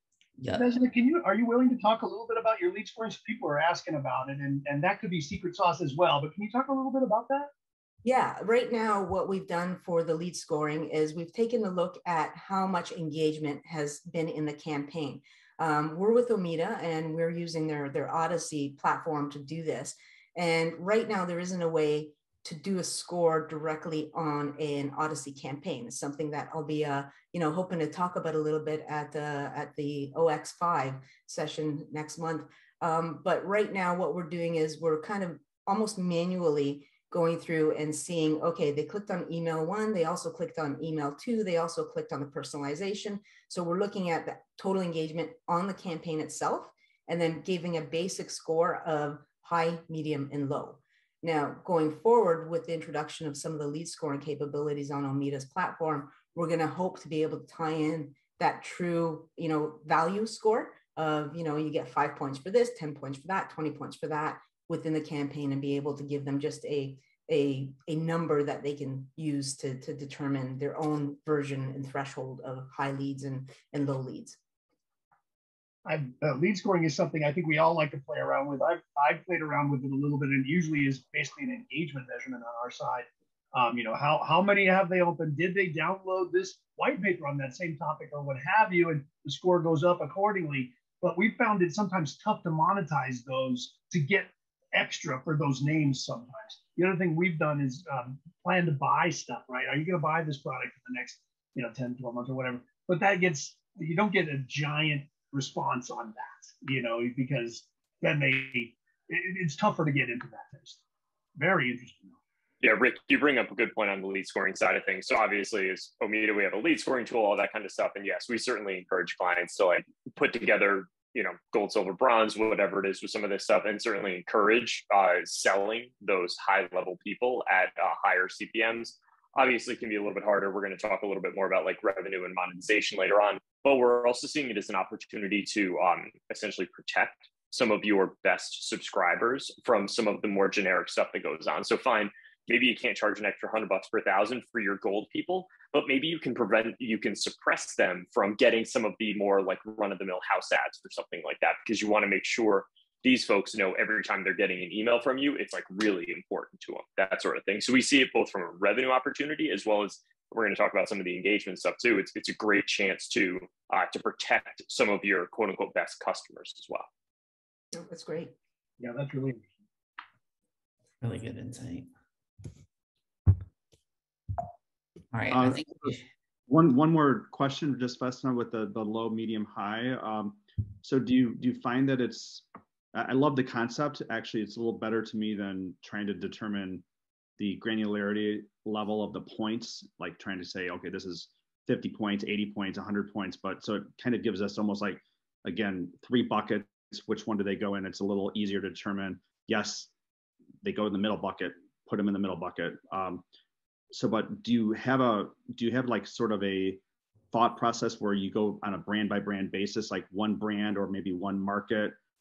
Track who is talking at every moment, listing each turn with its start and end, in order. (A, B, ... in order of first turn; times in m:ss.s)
0:00.4-0:00.6 A
0:00.5-0:07.5 B
0:08.0-1:14.4 C
1:15.8-1:50.8 B
1:51.4-1:52.2 B
1:52.6-2:46.9 D
2:47.7-2:48.3 C
2:48.8-2:49.4 B
2:51.0-2:51.9 A
2:55.1-2:56.0 A
2:55.3-2:56.0 E
2:56.5-3:06.8 E
3:07.4-3:19.9 E
3:20.6-3:23.2 E
3:23.9-3:32.0 E